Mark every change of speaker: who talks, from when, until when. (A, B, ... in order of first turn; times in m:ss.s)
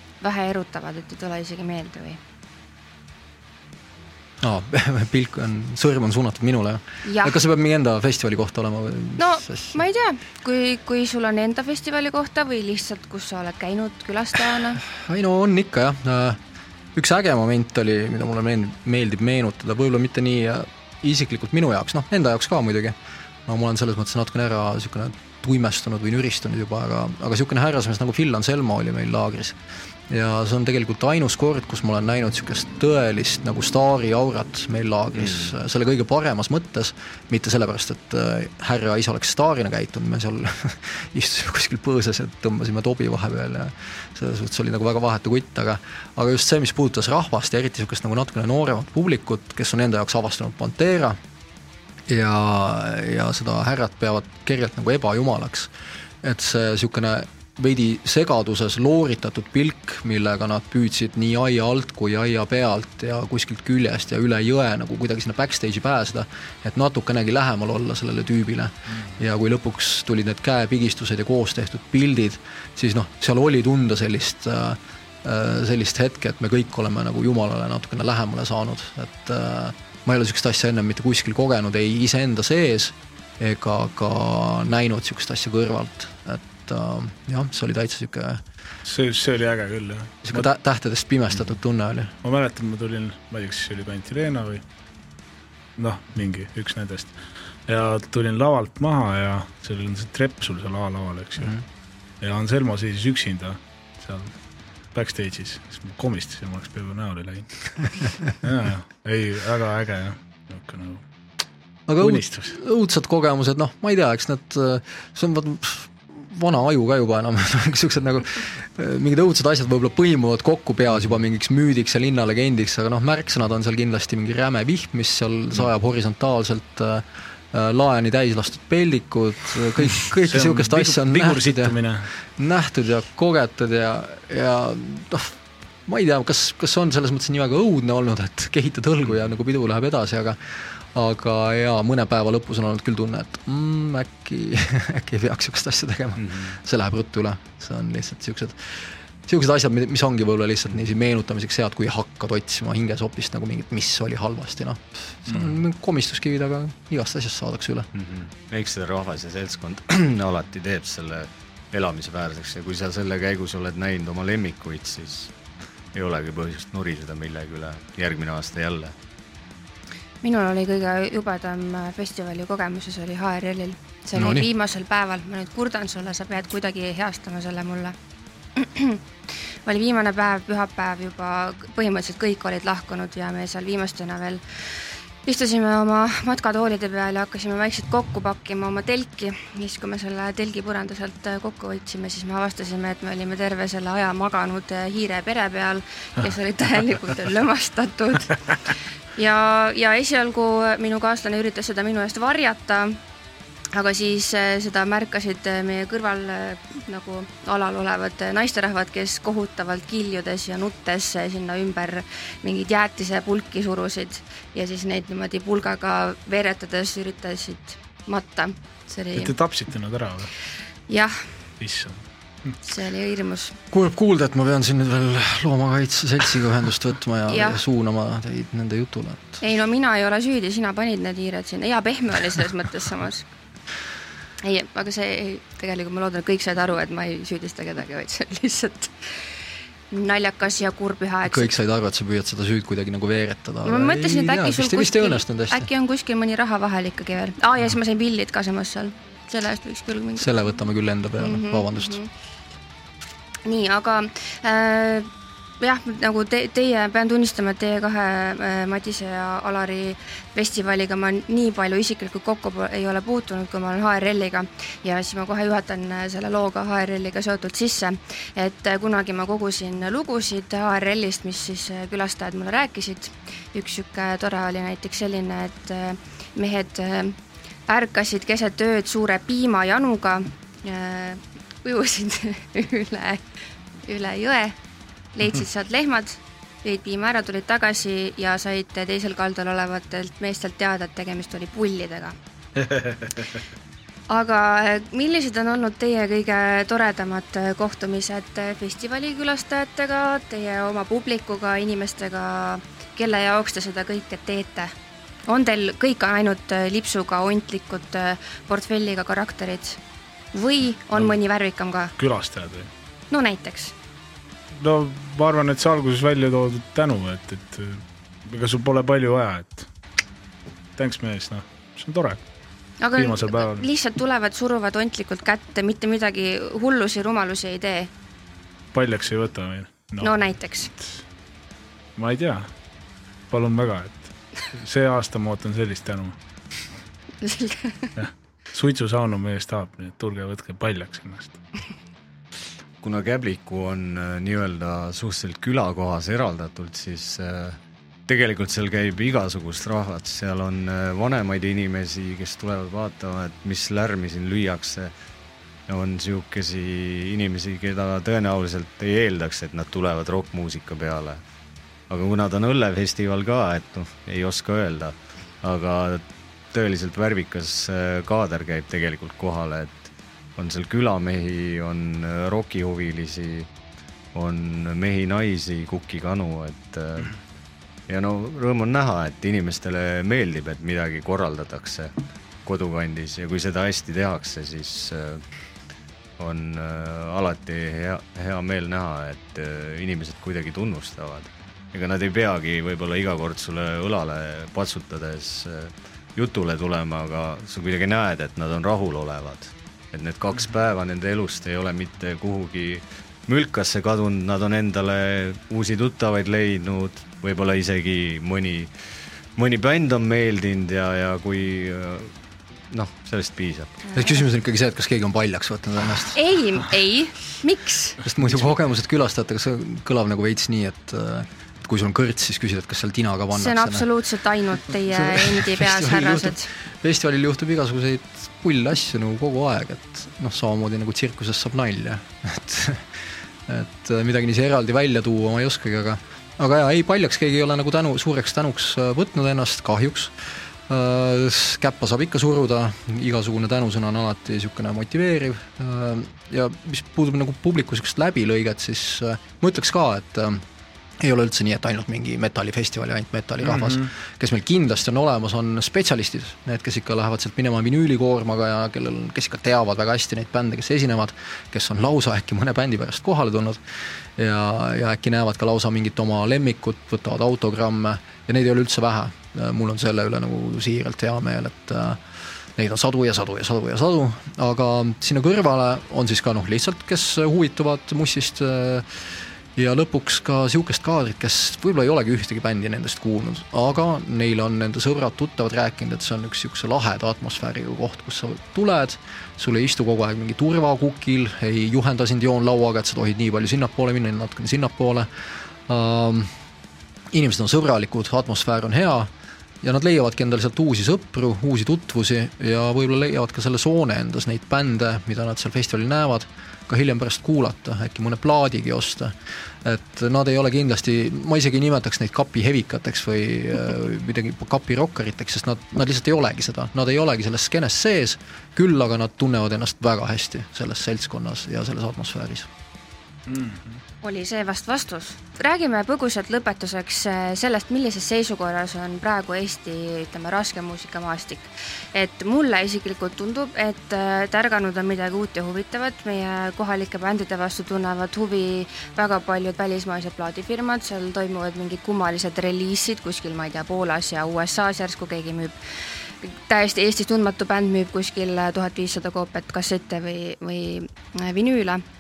0:00.2-0:02.2 A
0:04.4-0:09.8 B
0:07.0-0:07.4 A
0:09.2-0:14.8 A
0:14.9-0:16.4 B
0:17.0-0:23.0 B
0:23.5-0:29.6 B
0:30.1-0:51.2 B
0:52.1-0:55.7 B
0:56.2-1:28.4 B
1:28.8-1:30.5 C
1:30.2-1:32.1 B
1:32.2-1:34.6 C
1:35.8-1:41.6 C
1:42.2-1:44.3 C
1:44.9-1:51.0 C
1:51.9-2:37.9 B
1:52.0-1:52.6 C
2:10.3-2:12.1 C
2:38.0-2:45.3 D
2:45.9-2:49.0 D
2:50.2-2:58.0 A
2:54.2-2:54.5 B
2:58.6-2:59.0 A
2:59.7-3:04.4 A
3:05.2-3:18.4 A
3:19.2-3:23.0 A
3:23.7-3:39.3 A
3:39.2-3:40.3 C
3:40.9-3:41.3 A
3:41.6-3:42.0 C
3:42.6-3:43.6 A
3:43.7-3:49.4 B
3:47.3-3:47.6 A
3:49.4-3:53.3 A
3:54.4-3:59.3 A
3:59.9-4:01.5 A
4:01.3-4:05.7 B
4:03.6-4:10.3 A
4:10.2-4:12.0 B
4:11.2-4:12.1 A
4:13.5-4:15.1 A
4:15.6-4:37.2 A
4:37.7-4:43.2 A
4:43.8-4:44.6 A
4:45.2-4:52.2 A
4:52.6-4:53.1 C
4:54.1-5:04.7 A
5:05.3-5:09.8 A
5:10.3-5:11.9 A
5:12.0-5:12.7 C
5:13.1-5:13.7 A
5:14.5-5:19.7 C
5:20.8-5:22.2 C
5:22.8-5:27.9 A
5:23.0-5:23.7 C
5:28.7-5:31.0 C
5:30.0-5:30.7 A
5:32.0-5:32.5 C
5:33.3-5:36.2 C
5:37.2-5:37.9 A
5:38.0-5:41.4 C
5:42.8-5:54.9 D
5:55.7-6:01.2 D
6:01.9-6:13.5 D
6:14.1-6:17.2 D
6:17.9-6:21.9 D
6:22.4-6:25.2 D
6:26.2-6:48.7 D
6:49.4-6:52.1 D
6:52.7-6:53.8 D
6:53.9-6:54.2 A
6:53.9-6:56.2 B
6:56.1-6:58.0 A
6:58.0-7:03.9 B
7:03.3-7:06.5 A
7:04.9-7:12.9 B
7:13.5-7:20.2 B
7:20.7-7:30.4 B
7:31.0-7:43.6 B
7:33.4-7:33.9 C
7:44.2-7:52.0 B
7:52.6-8:15.1 B
8:15.7-8:16.3 B
8:17.1-8:19.1 B
8:19.6-8:29.1 B
8:29.6-8:42.5 B
8:43.3-8:43.8 C
8:44.0-9:11.8 A